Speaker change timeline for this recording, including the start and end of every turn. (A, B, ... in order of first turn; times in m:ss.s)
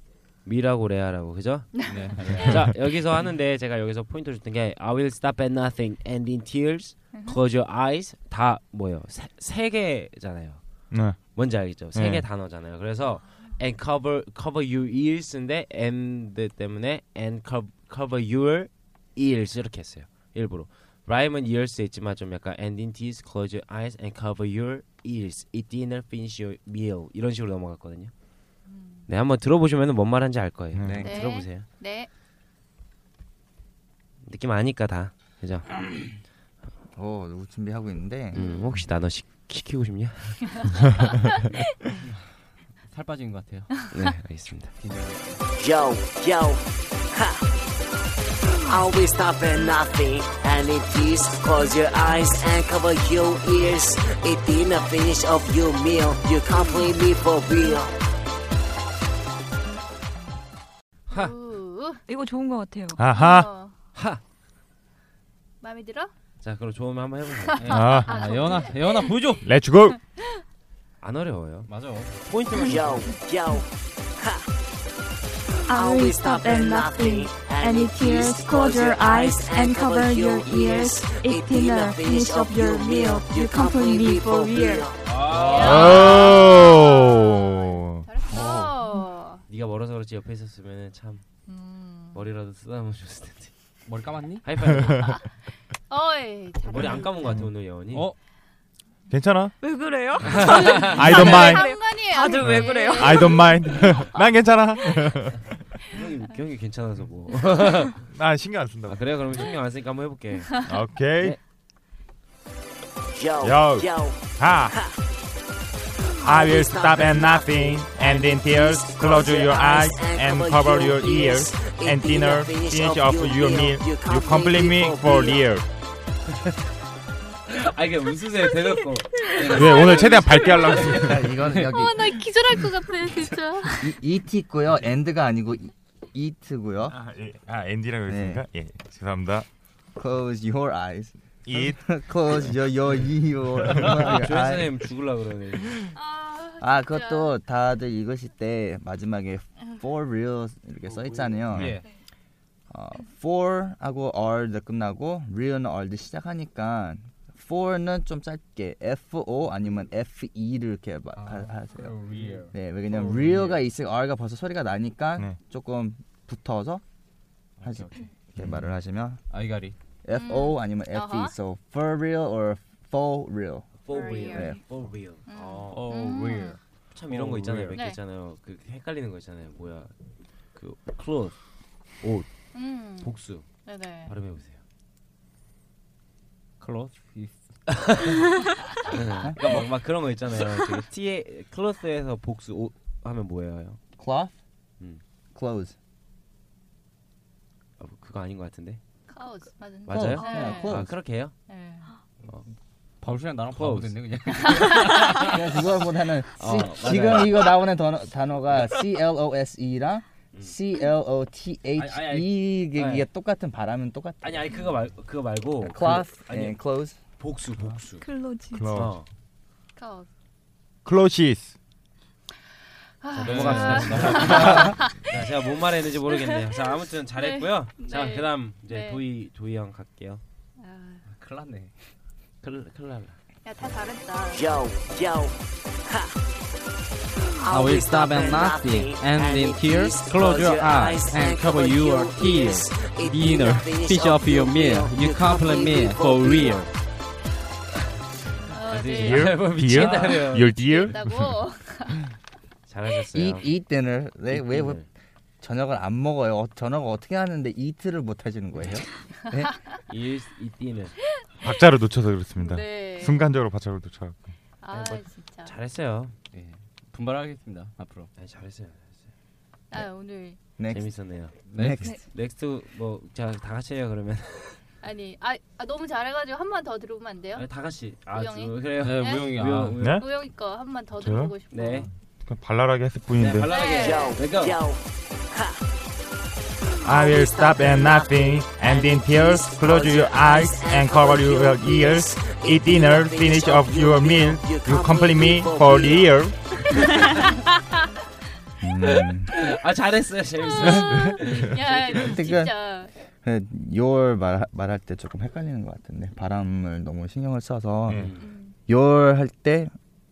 0:00.4-0:10.6 A
0:01.9-0:02.6 B
0:07.1-0:07.4 C
0:10.9-0:11.2 D
0:11.2-0:28.1 A
0:11.9-0:12.3 D
0:28.6-0:29.1 C
0:29.1-0:31.6 A
0:30.7-0:31.0 D
0:30.9-0:31.3 E
0:31.0-0:32.1 C
0:34.2-0:35.9 A
0:36.9-0:38.4 E
0:38.3-0:40.7 A
0:38.3-0:38.8 C
0:42.0-0:42.3 B
0:42.8-0:43.9 B
0:43.9-0:44.7 A
0:44.8-0:45.5 B
0:45.6-0:46.6 F
0:48.6-0:57.9 F
1:01.1-1:02.0 C
1:02.1-1:03.0 G
1:03.0-1:03.5 D
1:03.1-1:03.8 C
1:03.9-1:04.2 A
1:05.6-1:06.1 C
1:06.4-1:07.7 A
1:07.5-1:09.2 C
1:07.6-1:09.5 B
1:07.7-1:08.2 D
1:09.4-1:10.0 D
1:11.0-1:13.2 A
1:11.6-1:12.2 B
1:12.7-1:13.6 F
1:15.7-1:24.9 G
1:15.7-1:24.9 F
1:25.0-1:26.4 A
1:25.1-1:26.2 B
1:25.5-1:29.4 C
1:25.6-1:28.0 D
1:25.7-1:26.1 F
1:28.3-1:28.7 E
1:29.5-1:31.2 A
1:31.5-1:32.2 C
1:32.1-1:33.5 A
1:33.8-1:34.4 B
1:34.4-1:35.2 A
1:34.7-1:35.1 D
1:35.9-1:37.3 C
1:36.6-1:38.1 A
1:37.2-1:37.5 D
1:37.9-1:38.2 B
1:39.1-1:39.5 D
1:39.6-1:43.7 G
1:40.2-1:41.3 A
1:40.5-1:43.8 C
1:40.8-1:41.6 D
1:42.4-1:45.5 D
1:45.9-1:48.0 A
1:48.1-1:49.2 D
1:48.8-1:50.7 A
1:50.6-1:51.4 D
1:53.2-1:54.2 F
1:53.4-1:54.8 D
1:56.2-2:05.6 D
1:56.2-2:05.4 F
2:07.5-2:11.6 A
2:09.5-2:11.3 D
2:10.3-2:10.8 C
2:10.9-2:12.1 E
2:11.7-2:13.9 C
2:13.8-2:16.9 E
2:16.9-2:19.4 D
2:18.1-2:18.4 E
2:19.9-2:24.7 E
2:21.4-2:21.9 D
2:23.9-2:25.9 A
2:25.9-2:27.3 C
2:26.6-2:31.8 E
2:30.9-2:31.9 B
2:32.7-2:42.0 E
2:41.2-2:43.6 B
2:42.5-2:46.8 E
2:47.6-2:48.6 B
2:47.6-2:49.2 E
2:49.3-2:49.8 B
2:50.0-2:54.6 E
2:50.1-2:51.3 C
2:53.8-2:55.9 A
2:53.9-2:54.6 C
2:55.3-2:56.6 C
2:55.7-2:57.8 B
2:56.9-2:59.9 A
3:00.5-3:01.4 A
3:02.0-3:02.3 A
3:02.5-3:03.1 C
3:02.8-3:03.4 A
3:03.6-3:04.1 C
3:04.0-3:04.6 A
3:06.6-3:07.4 B
3:08.0-3:13.8 A
3:14.0-3:14.4 E
3:15.3-3:15.7 E
3:17.8-3:18.8 A
3:19.1-3:20.8 C
3:19.9-3:21.3 A
3:19.9-3:20.9 E
3:21.5-3:21.9 C
3:23.0-3:25.5 B
3:23.5-3:24.6 A
3:25.1-3:34.6 E
3:26.4-3:27.6 A
3:31.7-3:33.1 A
3:34.2-3:36.6 A
3:35.6-3:37.0 E
3:37.2-3:38.1 A
3:38.0-3:38.6 G
3:38.5-3:39.0 D
3:38.7-3:39.1 A
3:39.8-3:40.1 C
3:40.8-3:41.5 D
3:43.0-3:45.0 C
3:43.1-3:50.2 A
3:43.2-3:44.8 B
3:47.2-3:49.0 C
3:50.6-3:51.0 C
3:51.1-3:51.7 B
3:52.4-3:53.2 A
3:53.4-3:54.5 C
3:54.4-3:55.3 F
3:57.4-4:06.7 B
3:57.5-4:06.2 F
4:08.2-4:10.6 A
4:08.5-4:12.0 C
4:09.0-4:11.3 D
4:09.8-4:10.1 B
4:12.7-4:13.5 A
4:13.1-4:14.8 E
4:14.3-4:14.8 A
4:15.4-4:19.5 E
4:19.9-4:21.0 A
4:21.4-4:24.2 D
4:22.4-4:23.3 C
4:24.6-4:25.5 C
4:24.7-4:26.1 A
4:26.3-4:28.1 B
4:28.2-4:28.9 A
4:29.7-4:30.4 C
4:30.6-4:30.9 E
4:30.7-4:34.6 A
4:31.5-4:31.9 B
4:31.6-4:31.9 E
4:34.8-4:37.5 C
4:37.4-4:40.0 A
4:38.0-4:39.3 C
4:38.8-4:39.9 B
4:39.8-4:40.0 D
4:39.9-4:41.9 C
4:41.0-4:43.5 D
4:41.5-4:41.9 A
4:43.2-4:44.6 A
4:43.5-4:44.2 C
4:43.8-4:44.8 F
4:46.8-4:56.3 D
4:46.9-4:48.0 F
4:48.8-4:56.1 F
4:57.1-4:57.5 C
4:58.6-4:59.3 E
4:58.8-5:02.3 A
5:00.5-5:02.9 C
5:02.0-5:02.7 E
5:03.2-5:08.1 E
5:07.9-5:08.3 A
5:08.2-5:08.6 C
5:08.7-5:09.7 E